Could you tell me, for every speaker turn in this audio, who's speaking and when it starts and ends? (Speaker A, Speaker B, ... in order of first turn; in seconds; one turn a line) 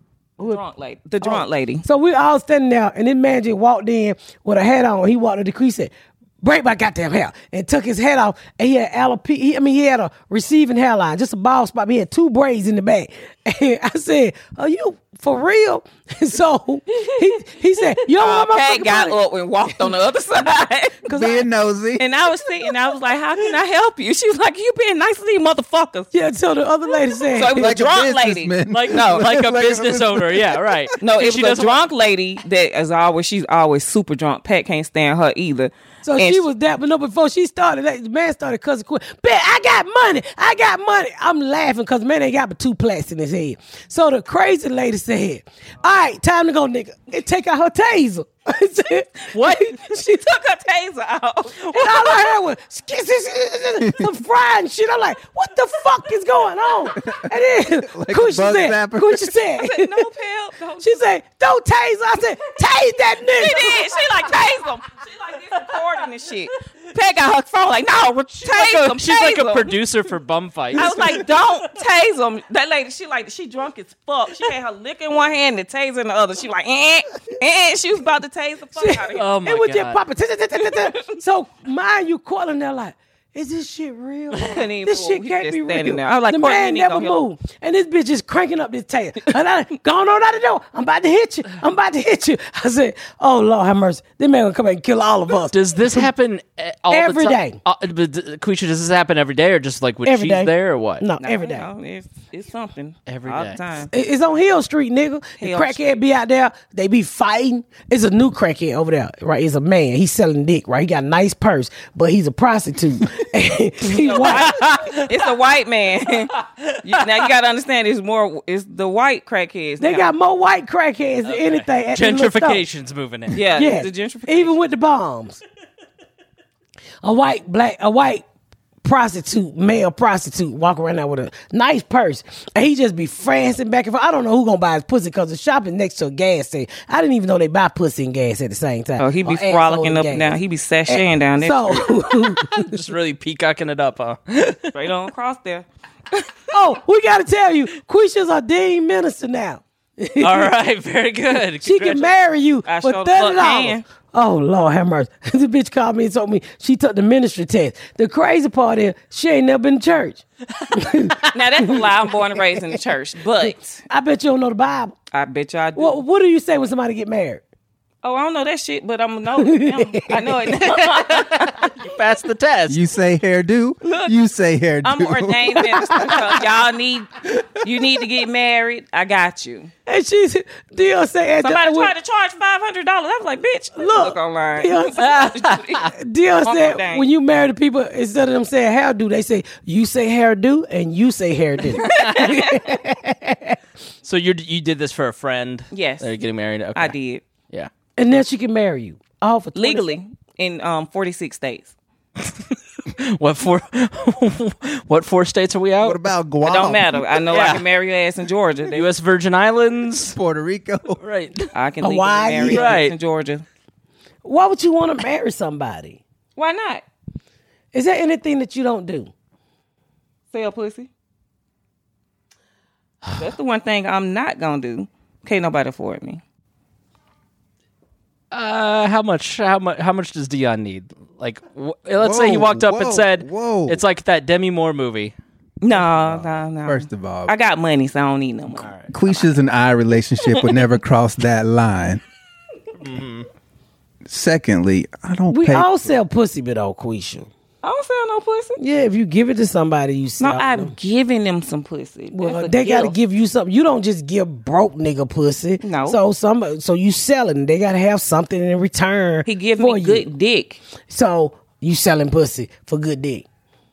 Speaker A: 0.4-1.9
Speaker B: 1.2-19.2
Speaker A: 18.1-21.1
Speaker B: 21.1-21.5
Speaker C: 21.1-22.0
Speaker A: 22.0-26.1
Speaker B: 26.1-27.7
Speaker A: 27.2-29.2
Speaker C: 27.5-30.8
Speaker D: 28.7-31.7
Speaker A: 31.0-36.5
Speaker B: 36.0-50.1
Speaker D: 49.3-49.7
Speaker A: 49.5-52.3
Speaker B: 51.7-60.1
Speaker C: 57.9-59.4
Speaker A: 59.5-61.0
Speaker B: 60.8-64.0
Speaker A: 63.3-69.8
Speaker D: 68.5-71.2
Speaker A: 70.8-79.4
Speaker C: 70.8-71.2
Speaker B: 78.8-96.1
Speaker D: 79.2-80.0
Speaker A: 80.7-81.1
Speaker A: 84.3-87.2
Speaker D: 95.5-101.0
Speaker B: 96.9-97.6
Speaker B: 100.0-101.7
Speaker A: 101.2-103.9
Speaker D: 103.1-103.9
Speaker B: 103.9-114.5
Speaker A: 105.4-106.0
Speaker A: 113.9-120.1
Speaker D: 114.2-115.1
Speaker D: 116.3-117.2
Speaker B: 119.8-122.6
Speaker D: 121.2-123.4
Speaker A: 123.3-124.5
Speaker B: 123.4-125.4
Speaker B: 127.0-128.2
Speaker B: 128.8-142.7
Speaker A: 139.0-141.9
Speaker D: 142.1-144.7
Speaker A: 144.7-146.3
Speaker B: 146.5-150.5
Speaker D: 150.2-152.1
Speaker B: 151.6-160.2
Speaker A: 152.7-153.8
Speaker B: 160.7-162.6
Speaker A: 161.3-163.8
Speaker B: 163.4-164.9
Speaker A: 165.1-166.0
Speaker B: 165.8-167.4
Speaker A: 168.0-171.8
Speaker B: 169.4-170.3
Speaker D: 170.5-172.8
Speaker C: 172.7-176.2
Speaker A: 173.8-174.2
Speaker A: 174.8-179.7
Speaker B: 179.9-181.9
Speaker A: 181.4-187.1
Speaker B: 183.8-185.2
Speaker D: 185.0-185.9
Speaker B: 185.9-193.6
Speaker D: 191.8-192.3
Speaker A: 191.9-192.6
Speaker D: 194.0-196.9
Speaker A: 195.7-196.1
Speaker A: 196.8-197.2
Speaker B: 198.0-199.9
Speaker A: 199.6-201.8
Speaker D: 202.2-206.1
Speaker C: 205.8-207.0
Speaker A: 206.4-208.9
Speaker D: 207.3-207.6
Speaker D: 208.7-210.2
Speaker C: 210.1-211.0
Speaker D: 211.0-211.5
Speaker A: 211.6-213.4
Speaker B: 211.8-212.7
Speaker D: 212.3-212.9
Speaker B: 214.2-216.0
Speaker A: 216.4-216.8
Speaker B: 217.7-219.1
Speaker A: 220.3-220.9
Speaker A: 223.2-226.2
Speaker D: 228.3-235.2
Speaker C: 232.0-233.8
Speaker A: 235.6-239.3
Speaker C: 236.2-237.3
Speaker D: 238.6-238.9
Speaker C: 238.9-242.0
Speaker D: 242.8-243.3
Speaker C: 244.1-245.9
Speaker B: 245.3-247.3
Speaker A: 247.6-248.6
Speaker B: 248.6-250.8
Speaker A: 250.2-253.0
Speaker B: 252.1-260.1
Speaker A: 255.6-256.0
Speaker A: 259.2-260.6
Speaker B: 260.9-263.2